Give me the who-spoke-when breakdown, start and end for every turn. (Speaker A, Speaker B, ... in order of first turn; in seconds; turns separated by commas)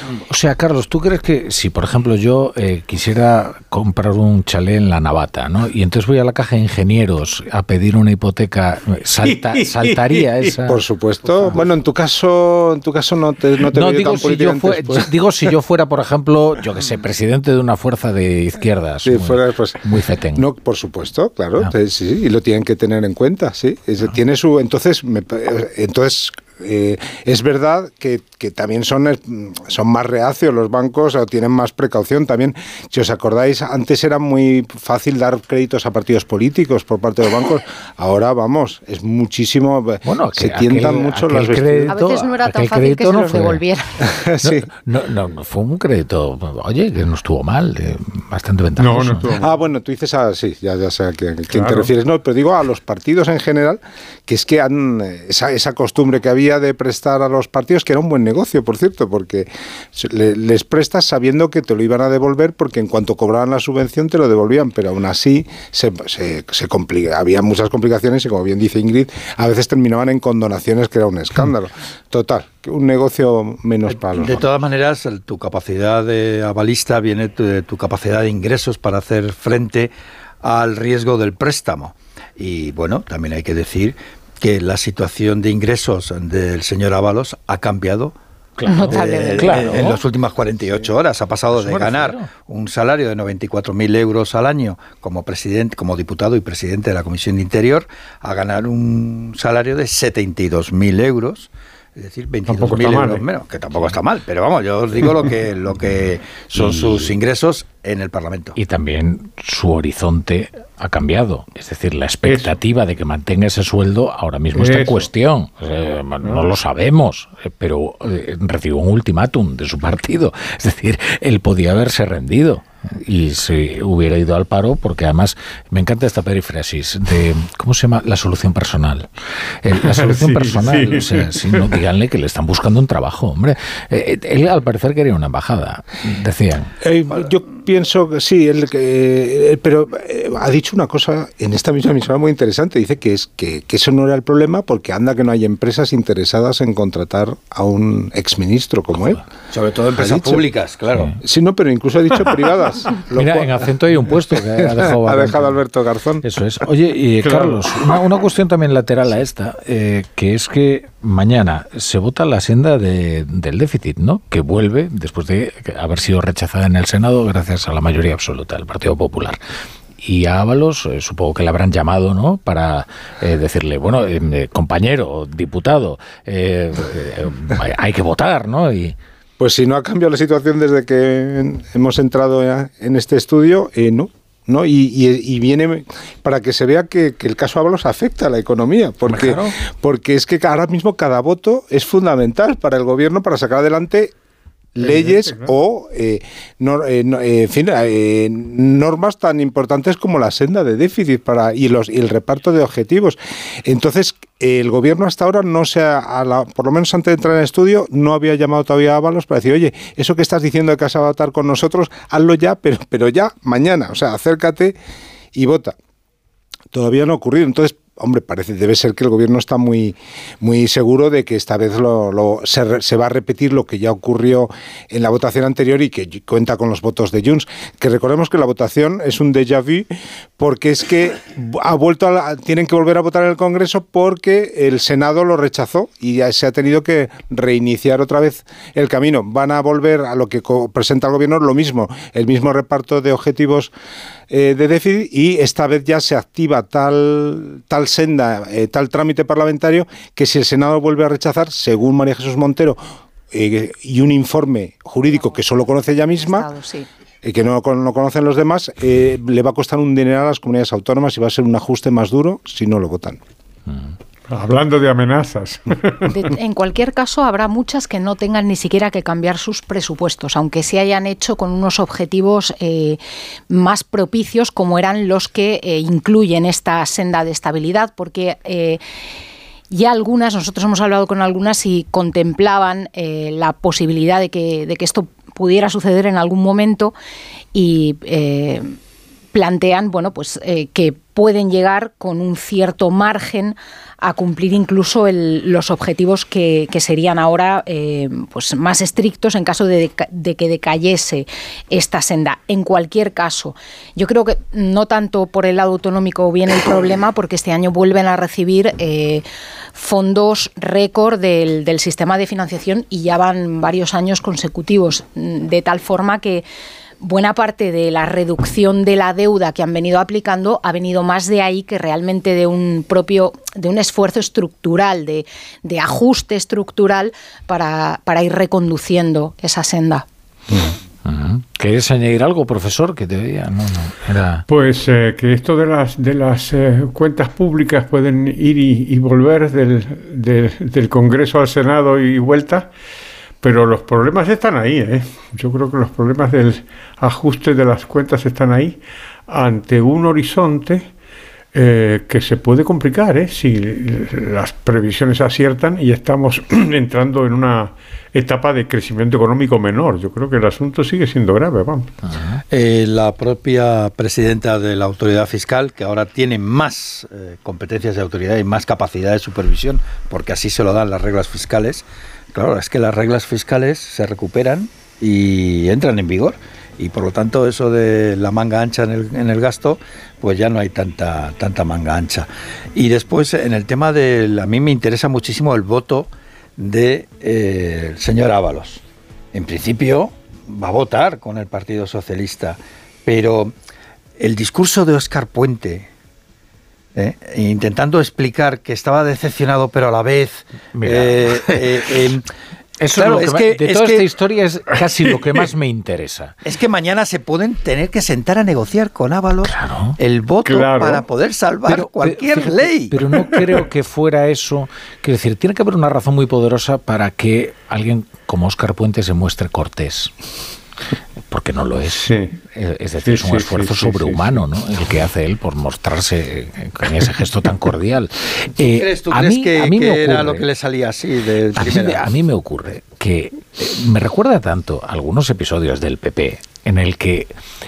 Speaker A: 0.3-10.8, Speaker B: 9.2-10.5, Speaker C: 10.6-15.1, Speaker A: 13.7-20.4, Speaker C: 19.0-41.9, Speaker A: 40.0-43.6, Speaker D: 41.9-44.0, Speaker C: 44.1-44.7, Speaker A: 44.4-49.3, Speaker B: 48.8-49.5, Speaker C: 49.4-74.5, Speaker B: 51.5-51.9, Speaker E: 73.9-88.2, Speaker A: 88.6-90.0, Speaker D: 88.7-89.8, Speaker E: 88.9-108.5, Speaker A: 91.5-92.3, Speaker B: 102.5-103.2, Speaker A: 106.5-107.1, Speaker A: 108.5-129.1, Speaker B: 112.2-112.6, Speaker B: 114.5-115.1, Speaker A: 129.6-136.7, Speaker B: 129.8-131.7, Speaker C: 136.8-149.2, Speaker E: 149.5-151.1, Speaker C: 149.9-150.5, Speaker C: 151.2-156.2, Speaker A: 153.2-155.6, Speaker A: 156.2-169.4, Speaker B: 157.2-157.6, Speaker A: 170.0-178.9, Speaker C: 179.4-194.1, Speaker A: 189.1-189.5, Speaker C: 194.7-214.8, Speaker B: 194.8-195.5, Speaker C: 215.3-215.8, Speaker C: 216.7-243.7, Speaker C: 244.3-252.8, Speaker C: 253.3-256.5, Speaker D: 256.2-256.9, Speaker C: 257.2-263.2, Speaker B: 264.3-266.1, Speaker D: 266.1-278.8, Speaker D: 279.7-286.9, Speaker D: 287.5-288.8, Speaker D: 289.3-316.4, Speaker D: 317.0-330.1, Speaker A: 331.0-334.4, Speaker B: 334.5-342.7, Speaker B: 343.4-350.9, Speaker B: 351.5-361.9, Speaker A: 362.0-362.4, Speaker E: 362.5-388.8, Speaker E: 389.3-393.5, Speaker E: 394.2-395.9, Speaker E: 396.9-402.2, Speaker A: 400.7-401.9, Speaker A: 402.8-406.4, Speaker E: 402.9-404.1, Speaker E: 406.4-412.9, Speaker A: 409.4-410.0, Speaker B: 410.4-411.1, Speaker A: 411.7-420.1, Speaker A: 421.3-430.4, Speaker B: 422.0-422.3, Speaker B: 423.1-424.4, Speaker E: 428.7-432.1, Speaker A: 431.6-437.3